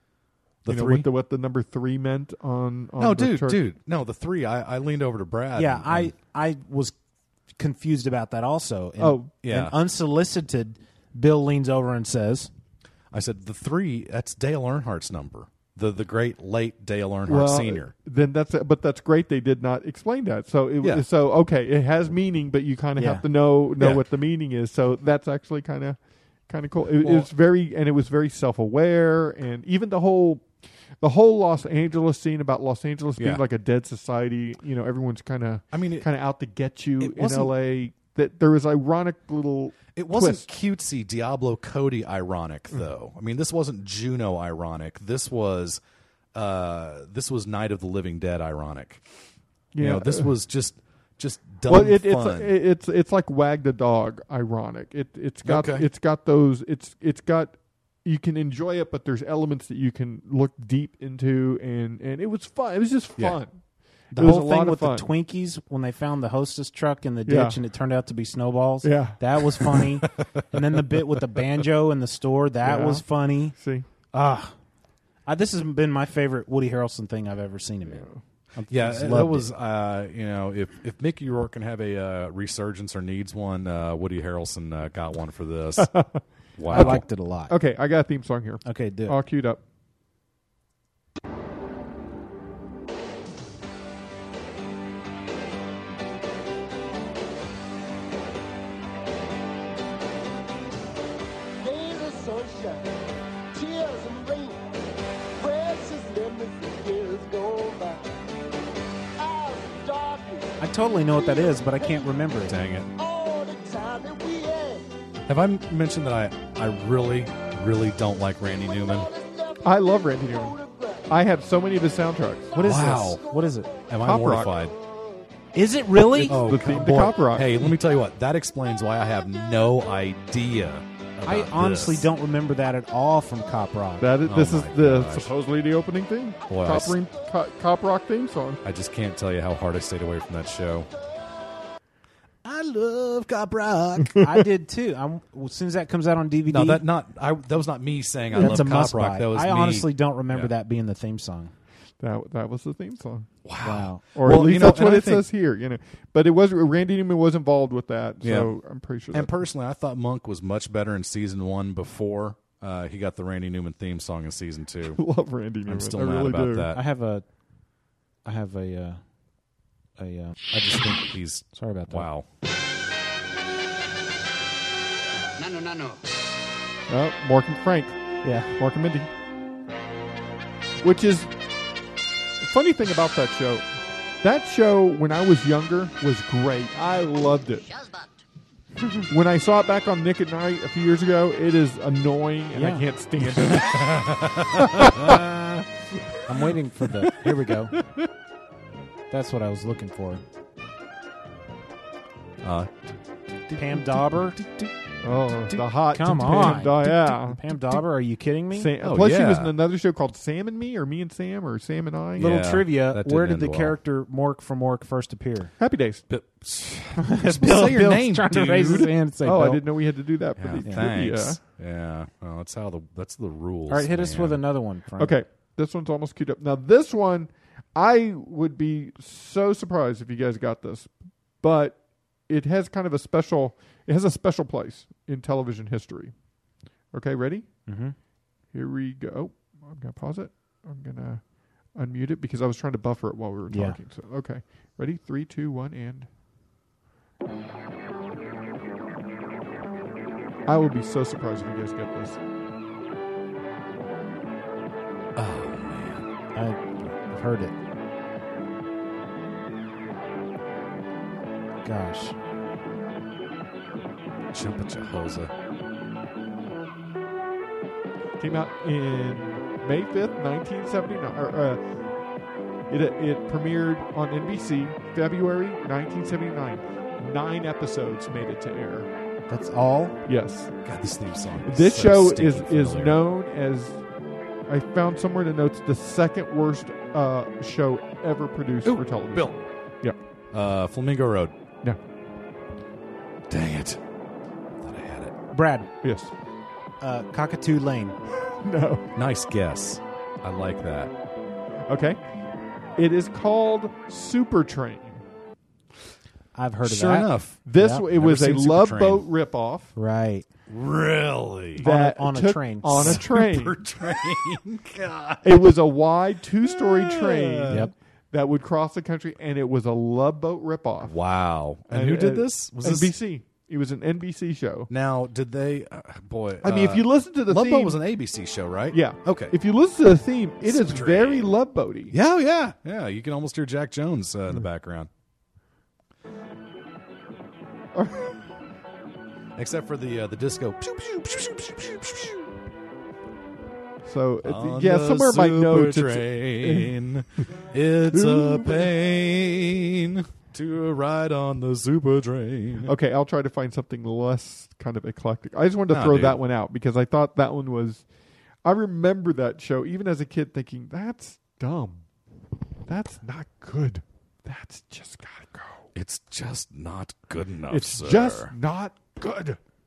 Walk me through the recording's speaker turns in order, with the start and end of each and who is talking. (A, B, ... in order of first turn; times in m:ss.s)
0:00.6-0:01.1 A
0:00.7-0:03.6 B
0:03.0-0:06.1 A
0:05.6-0:07.0 C
0:07.6-0:12.5 C
0:09.0-0:09.3 B
0:09.4-0:09.7 A
0:13.1-0:17.9 A
0:17.3-0:30.5 B
0:23.0-0:23.2 C
0:23.8-0:24.0 A
0:27.0-0:27.3 A
0:31.0-0:40.5 B
0:35.7-0:36.1 A
0:37.0-0:37.5 A
0:40.0-0:45.8 A
0:46.3-0:49.0 A
0:49.7-0:50.3 B
0:49.8-0:52.5 A
0:51.7-1:03.6 B
0:55.4-0:55.9 A
1:04.1-1:05.1 B
1:04.1-1:13.6 C
1:07.3-1:07.6 B
1:08.8-1:09.6 B
1:12.6-1:13.9 B
1:14.1-1:14.5 C
1:15.2-1:19.5 C
1:17.8-1:18.2 B
1:18.7-1:27.0 A
1:25.8-1:29.6 B
1:26.7-1:27.5 C
1:28.6-1:29.2 C
1:41.6-1:42.9 D
1:43.5-1:44.6 D
1:45.4-1:48.1 D
1:49.2-1:50.4 D
1:50.6-1:52.6 C
1:51.7-1:52.0 D
1:52.4-1:52.9 A
1:53.0-1:54.8 D
1:55.3-1:59.1 A
1:59.1-1:59.6 D
1:59.6-2:02.6 B
2:00.6-2:01.0 D
2:02.5-2:03.7 C
2:02.6-2:03.2 A
2:03.9-2:04.7 A
2:04.0-2:04.5 B
2:05.5-2:06.4 C
2:06.2-2:12.1 A
2:06.2-2:07.7 B
2:11.2-2:14.1 C
2:14.0-2:18.6 B
2:14.2-2:15.3 A
2:16.5-2:17.0 A
2:18.6-2:20.9 A
2:22.4-2:24.2 A
2:24.2-2:26.8 C
2:26.5-2:30.5 A
2:28.4-2:31.5 C
2:32.0-2:33.3 B
2:33.4-2:35.3 A
2:33.6-2:34.0 C
2:34.1-2:39.3 B
2:38.2-2:38.5 A
2:39.1-2:45.0 A
2:44.9-2:46.7 B
2:45.6-2:46.8 A
2:46.7-2:47.3 C
2:48.2-2:49.1 C
2:50.0-2:50.6 C
2:50.5-2:52.2 A
2:51.5-2:52.1 C
2:56.9-2:59.1 B
2:58.2-2:58.6 C
3:00.8-3:01.3 B
3:02.4-3:03.7 B
3:04.2-3:07.7 B
3:09.1-3:13.9 B
3:12.5-3:12.8 C
3:13.4-3:15.1 A
3:14.6-3:15.2 B
3:15.0-3:15.6 C
3:16.2-3:17.8 C
3:19.1-3:20.2 C
3:22.4-3:22.7 A
3:23.5-3:24.7 A
3:23.6-3:24.4 C
3:25.0-3:27.8 B
3:25.9-3:28.7 C
3:28.5-3:32.3 B
3:28.8-3:29.5 A
3:32.2-3:33.8 A
3:32.2-3:35.5 C
3:35.6-3:36.0 B
3:36.1-3:38.9 A
3:37.1-3:39.7 C
3:39.2-3:41.4 B
3:40.4-3:44.4 A
3:40.6-3:40.9 C
3:43.7-3:45.1 C
3:45.0-3:56.1 B
3:56.9-3:57.6 B
3:57.7-3:57.9 C
3:58.5-4:06.1 B
4:03.5-4:03.8 C
4:10.4-4:12.2 B
4:15.2-4:16.1 A
4:16.3-4:17.5 C
4:21.6-4:22.2 C
4:24.3-4:25.3 A
4:28.2-4:31.6 B
4:32.7-4:38.9 B
4:39.3-4:40.0 C
4:40.0-4:40.6 B
4:40.6-4:43.0 A
4:41.4-4:43.8 B
4:44.5-4:50.0 B
4:48.6-4:49.4 A
4:50.3-4:51.3 A
4:53.3-4:53.8 A
4:54.6-4:55.2 A
4:55.3-4:55.7 C
4:55.8-4:56.1 B
4:56.8-4:58.0 C
4:58.4-4:58.9 B
4:58.9-5:00.9 A
5:01.7-5:02.0 B
5:02.8-5:05.0 B
5:06.3-5:07.8 C
5:06.6-5:09.0 A
5:07.4-5:09.7 B
5:09.8-5:10.3 C
5:10.5-5:11.6 A
5:11.6-5:13.0 C
5:11.6-5:13.6 B
5:12.8-5:15.4 A
5:15.2-5:21.0 B
5:16.4-5:17.7 A
5:20.8-5:22.9 A
5:21.7-5:24.7 B
5:24.7-5:29.4 A
5:26.4-5:27.8 B
5:28.7-5:32.0 B
5:30.4-5:31.3 A
5:31.9-5:34.9 A
5:37.7-5:38.2 B
5:39.4-5:42.2 A
5:43.8-5:46.8 B
5:44.2-5:52.7 A
5:47.9-5:48.7 B
5:52.6-5:57.8 B
5:55.7-5:56.2 A
5:58.4-6:01.8 B
6:02.7-6:05.7 B
6:05.7-6:08.3 A
6:07.5-6:09.4 B